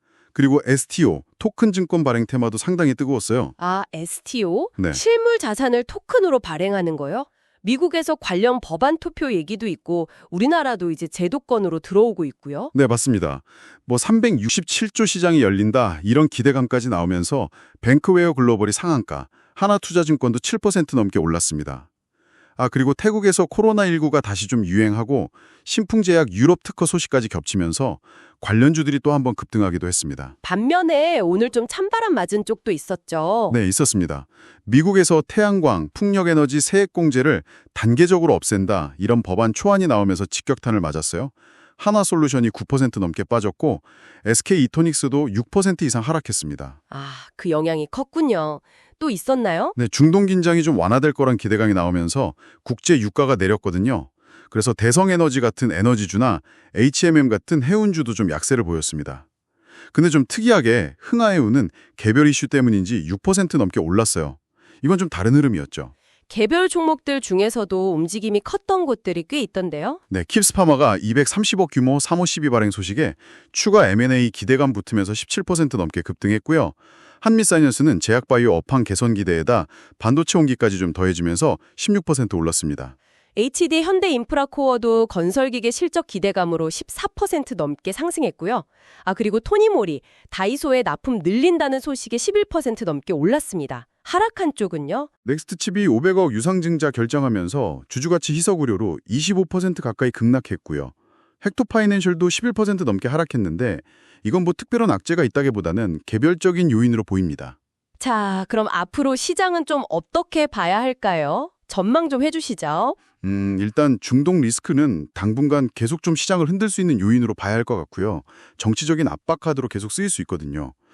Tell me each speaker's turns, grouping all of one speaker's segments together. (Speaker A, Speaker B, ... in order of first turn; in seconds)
Speaker A: 0.3-3.5, 12.7-21.9, 22.6-30.3, 33.5-46.8, 49.8-59.2, 59.9-65.9, 70.1-82.9, 95.2-107.5, 113.2-120.7
Speaker B: 3.6-12.7, 30.4-33.6, 46.9-49.7, 66.3-70.0, 83.3-95.1, 108.0-113.0